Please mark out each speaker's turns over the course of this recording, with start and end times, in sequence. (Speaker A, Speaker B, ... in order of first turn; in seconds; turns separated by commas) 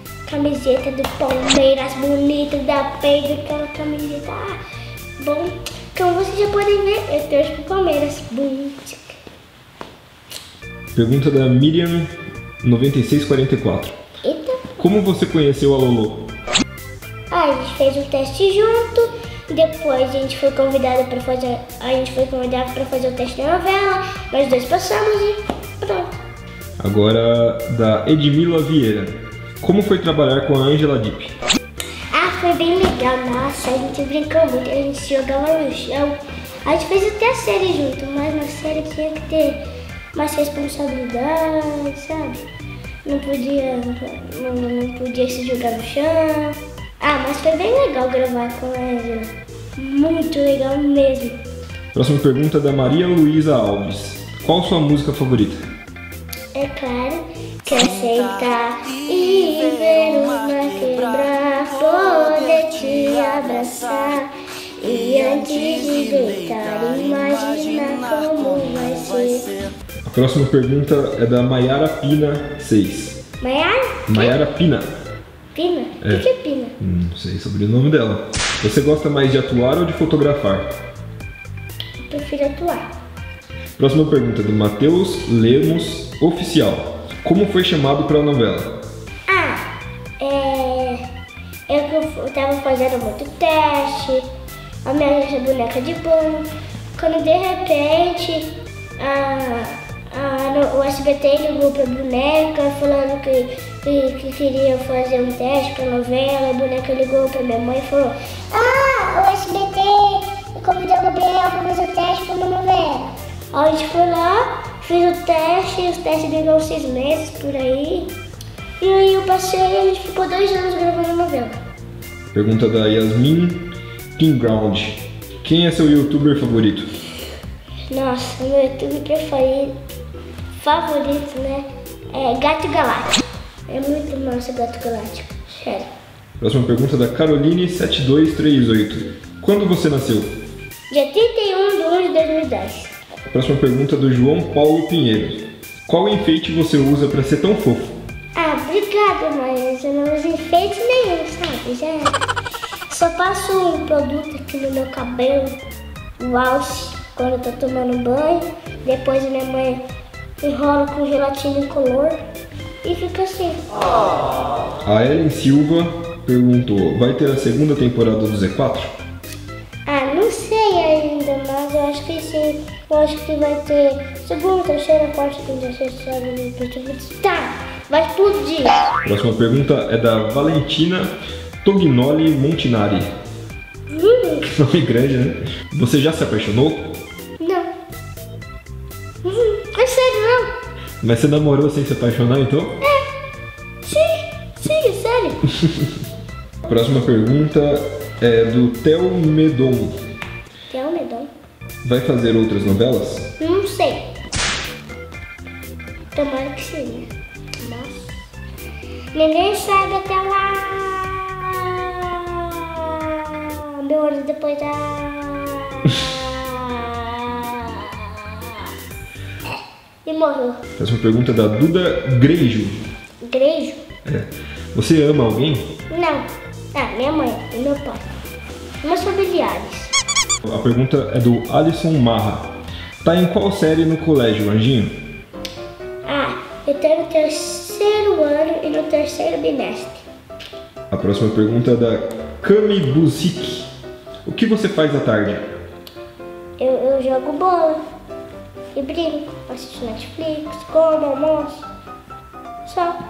Speaker A: 0.2-4.6, Speaker A: 5.2-9.2, Speaker B: 10.9-13.9, Speaker A: 14.2-14.8, Speaker B: 14.8-16.3, Speaker A: 17.3-26.2, Speaker B: 26.8-31.4, Speaker A: 32.1-42.4, Speaker A: 43.0-51.4, Speaker B: 51.9-55.6, Speaker A: 56.5-69.5, Speaker B: 70.1-73.2, Speaker A: 73.4-74.3, Speaker B: 74.1-74.9, Speaker A: 75.5-76.8, Speaker B: 76.0-76.3, Speaker B: 76.8-80.7, Speaker A: 82.0-82.9, Speaker B: 83.8-88.8, Speaker A: 89.3-89.7, Speaker A: 90.2-91.0, Speaker A: 91.7-94.3, Speaker A: 94.8-118.1, Speaker A: 118.8-121.6, Speaker B: 122.3-126.9, Speaker A: 127.9-129.8, Speaker A: 130.6-135.9, Speaker B: 136.4-140.3, Speaker A: 140.9-142.9, Speaker B: 143.3-148.0, Speaker A: 148.4-152.2, Speaker A: 152.9-155.6, Speaker A: 156.2-159.8, Speaker A: 160.4-162.2, Speaker A: 162.8-163.6, Speaker B: 164.8-168.9, Speaker A: 169.9-178.9, Speaker B: 179.1-183.1, Speaker A: 183.9-184.5, Speaker B: 184.4-187.0, Speaker A: 187.4-187.7, Speaker A: 189.2-190.5, Speaker B: 191.0-192.8, Speaker A: 193.8-195.4, Speaker B: 195.6-195.9, Speaker B: 196.7-200.0, Speaker A: 200.7-201.3, Speaker B: 201.8-203.3, Speaker A: 203.4-204.1, Speaker A: 206.1-207.1, Speaker A: 207.6-208.2, Speaker A: 209.1-218.7, Speaker A: 220.1-220.6, Speaker B: 220.8-222.9, Speaker A: 223.2-223.8, Speaker B: 224.1-225.7, Speaker A: 225.9-228.0, Speaker A: 228.8-229.9, Speaker B: 230.4-235.0, Speaker A: 236.1-240.0, Speaker B: 240.9-243.7, Speaker B: 244.3-245.5, Speaker A: 246.6-247.8, Speaker A: 248.7-251.7, Speaker A: 252.7-253.0